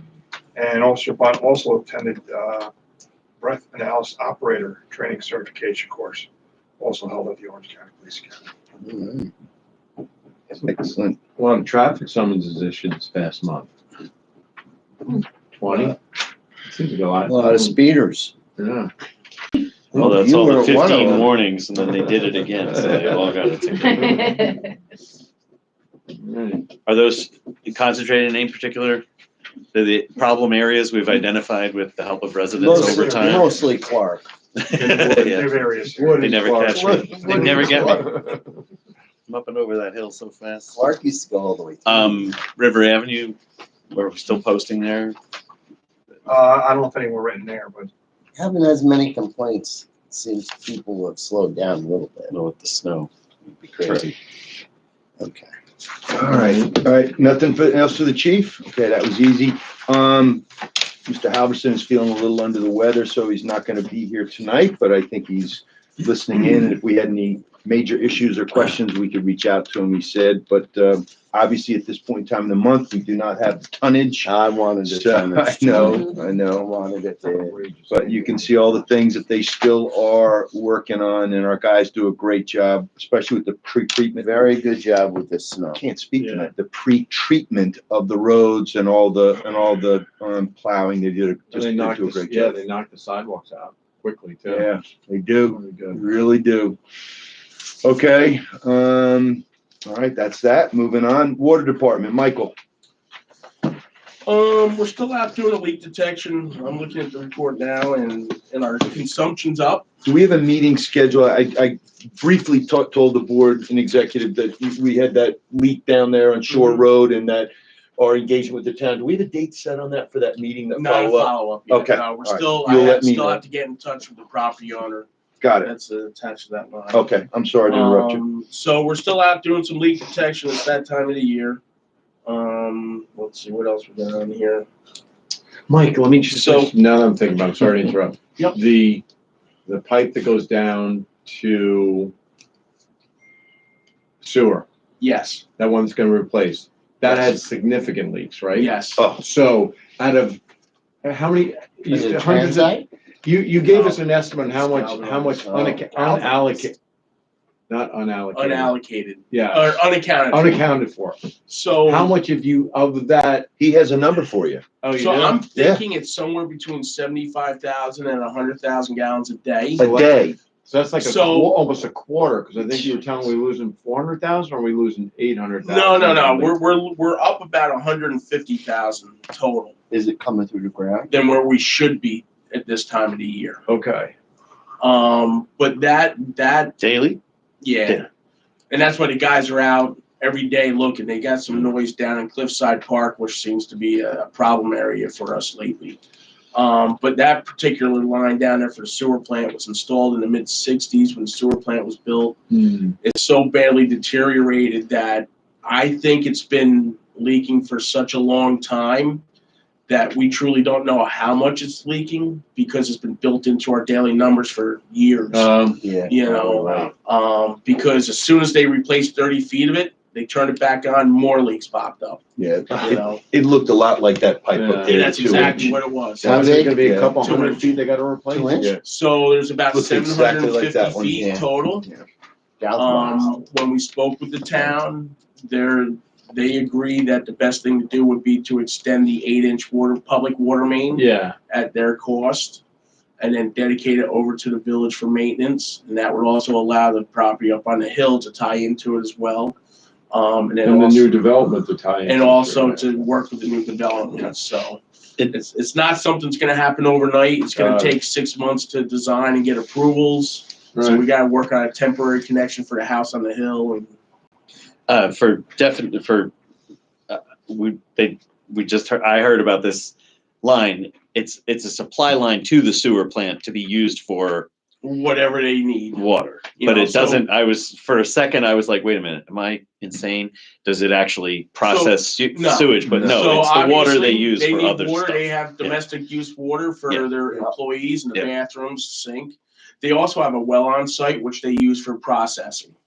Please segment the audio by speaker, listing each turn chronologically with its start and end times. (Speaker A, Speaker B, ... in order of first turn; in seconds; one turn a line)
Speaker A: 0.6-2.7
Speaker A: 3.4-6.3
Speaker A: 6.8-8.5
Speaker B: 8.8-9.3
Speaker C: 10.5-11.2
Speaker D: 11.4-13.7
Speaker D: 15.6-16.0
Speaker D: 16.7-17.8
Speaker B: 17.2-18.3
Speaker D: 18.6-18.9
Speaker B: 19.9-21.3
Speaker E: 20.0-24.0
Speaker D: 22.8-23.2
Speaker D: 24.0-24.3
Speaker D: 26.2-26.8
Speaker E: 26.8-29.1
Speaker E: 29.7-33.6
Speaker B: 32.6-34.2
Speaker A: 32.6-33.5
Speaker E: 34.5-38.4
Speaker A: 34.8-36.9
Speaker D: 36.0-37.1
Speaker C: 36.7-37.9
Speaker E: 39.3-40.8
Speaker B: 40.7-42.3
Speaker E: 41.9-43.4
Speaker E: 43.9-45.2
Speaker A: 46.3-47.9
Speaker B: 48.4-52.3
Speaker E: 52.3-53.1
Speaker B: 53.6-54.1
Speaker E: 53.8-54.1
Speaker B: 55.2-55.5
Speaker C: 56.1-60.5
Speaker C: 61.0-74.3
Speaker B: 74.2-77.6
Speaker C: 74.9-76.7
Speaker D: 77.2-78.6
Speaker C: 77.9-84.5
Speaker B: 84.2-85.8
Speaker C: 85.8-92.6
Speaker D: 86.2-86.5
Speaker D: 91.5-94.7
Speaker C: 94.5-96.8
Speaker D: 95.5-96.0
Speaker C: 97.8-102.5
Speaker F: 104.3-109.8
Speaker C: 110.0-123.4
Speaker F: 116.5-116.8
Speaker F: 120.7-125.1
Speaker C: 125.4-125.7
Speaker F: 125.6-127.1
Speaker C: 126.9-128.2
Speaker F: 127.7-131.6
Speaker F: 132.3-134.7
Speaker D: 135.7-139.0
Speaker F: 136.3-136.7
Speaker D: 139.7-142.1
Speaker D: 144.2-144.7
Speaker F: 145.0-145.4
Speaker D: 145.6-150.4
Speaker F: 148.5-149.0
Speaker C: 149.0-149.2
Speaker D: 151.0-156.8
Speaker B: 151.9-152.9
Speaker F: 153.7-155.3
Speaker B: 154.8-156.0
Speaker D: 157.7-158.8
Speaker F: 158.3-160.6
Speaker D: 159.3-161.2
Speaker F: 161.5-162.1
Speaker D: 161.8-163.5
Speaker C: 163.6-164.6
Speaker D: 164.8-165.4
Speaker F: 165.0-169.8
Speaker C: 165.6-165.8
Speaker C: 169.8-170.4
Speaker D: 169.8-176.6
Speaker F: 171.0-171.6
Speaker F: 175.6-179.8
Speaker B: 179.9-181.1
Speaker F: 181.1-183.6
Speaker D: 183.7-184.1
Speaker F: 184.8-186.8
Speaker E: 186.8-187.2
Speaker F: 187.6-188.1
Speaker F: 188.7-196.0
Speaker F: 196.5-202.4
Speaker D: 202.5-203.0
Speaker F: 203.0-209.2
Speaker F: 209.9-215.5
Speaker D: 215.3-215.8
Speaker B: 215.8-216.9
Speaker F: 216.0-222.2
Speaker C: 222.4-227.2
Speaker F: 222.8-223.2
Speaker D: 224.5-228.8
Speaker F: 224.9-226.4
Speaker B: 226.2-226.8
Speaker F: 227.2-227.8
Speaker B: 228.3-228.7
Speaker F: 228.8-231.9
Speaker C: 229.7-232.1
Speaker B: 232.6-233.4
Speaker F: 232.8-242.6
Speaker D: 240.9-241.4
Speaker F: 243.2-249.6
Speaker F: 250.1-251.1
Speaker D: 250.6-252.9
Speaker F: 252.1-263.9
Speaker D: 257.5-258.0
Speaker D: 260.8-261.1
Speaker E: 264.9-266.3
Speaker E: 267.1-274.5
Speaker F: 274.8-276.0
Speaker E: 275.9-285.9
Speaker F: 276.6-277.3
Speaker F: 281.6-292.7
Speaker E: 286.9-287.2